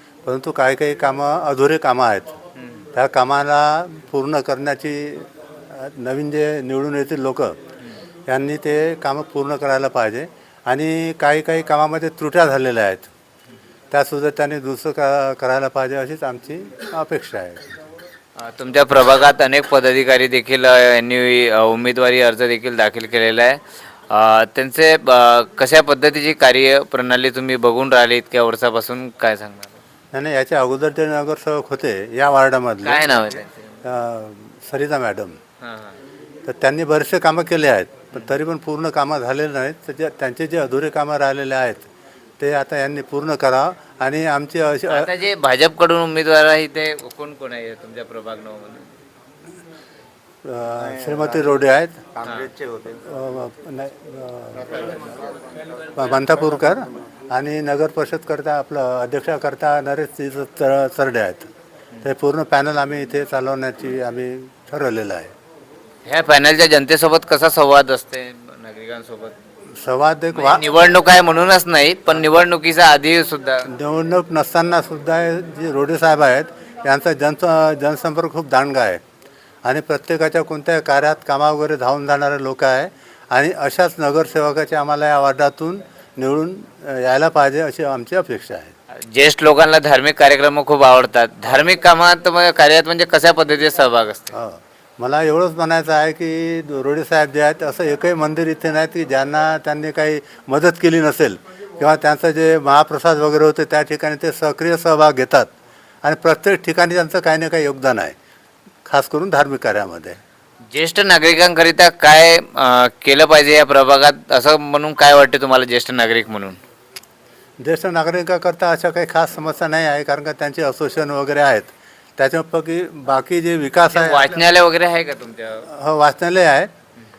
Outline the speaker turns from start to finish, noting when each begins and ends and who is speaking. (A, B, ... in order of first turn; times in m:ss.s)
0:00.2-0:02.4 A
0:02.6-0:02.8 B
0:02.9-0:07.6 A
0:08.3-0:13.1 A
0:13.9-0:17.7 A
0:18.4-0:29.8 B
0:30.1-0:33.0 A
0:32.8-0:33.7 B
0:33.8-0:35.4 A
0:35.6-0:36.0 B
0:36.5-0:41.9 A
0:42.4-0:45.1 A
0:44.9-0:48.9 B
0:50.4-0:52.2 A
0:53.0-0:55.1 A
0:55.9-1:01.5 A
1:02.0-1:05.3 A
1:06.1-1:09.4 B
1:09.8-1:10.6 A
1:10.3-1:13.7 B
1:13.7-1:19.0 A
1:19.6-1:28.7 A
1:29.1-1:34.3 B
1:34.3-1:45.5 A
1:46.0-1:48.2 A
1:48.9-1:50.2 A
1:50.7-1:56.6 B
1:57.6-2:04.4 A
2:03.9-2:05.7 B
2:05.7-2:06.7 A